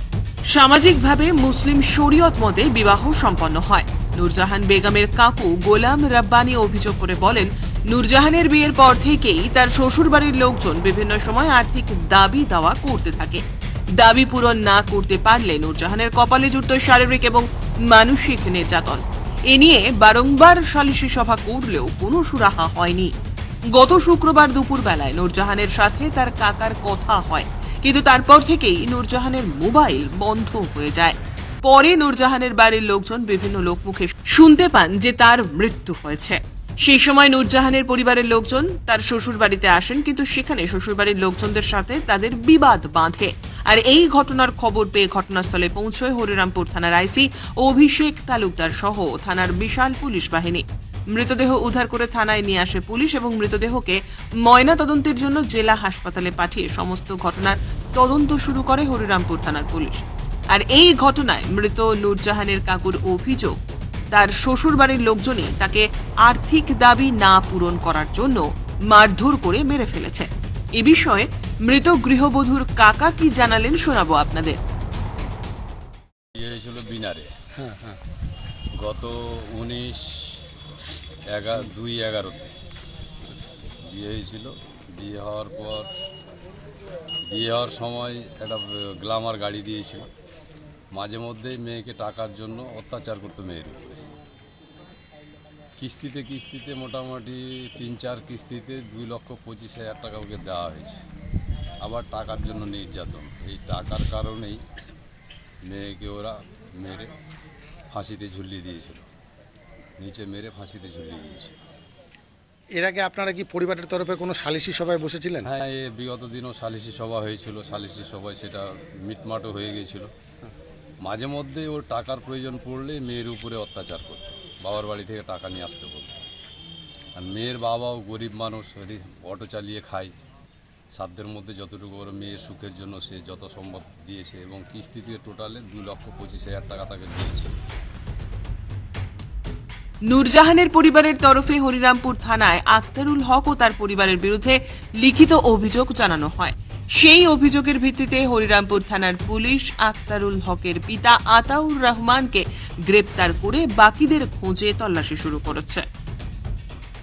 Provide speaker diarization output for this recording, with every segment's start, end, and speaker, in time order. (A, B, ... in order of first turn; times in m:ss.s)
0:00.5-0:13.4 A
0:14.0-0:23.1 A
0:23.7-1:03.5 A
1:04.1-1:14.6 A
1:16.3-1:17.3 B
1:17.6-1:17.9 C
1:18.8-1:20.4 B
1:21.3-1:22.5 B
1:23.9-1:25.9 B
1:27.3-1:30.1 B
1:30.9-1:34.0 B
1:35.8-1:41.0 B
1:41.8-1:44.6 B
1:45.6-1:47.1 B
1:47.9-1:49.0 B
1:50.0-1:51.6 B
1:52.7-1:55.5 C
1:55.4-2:00.1 B
2:01.0-2:06.2 B
2:07.2-2:10.1 B
2:10.9-2:17.5 B
2:20.0-2:35.8 A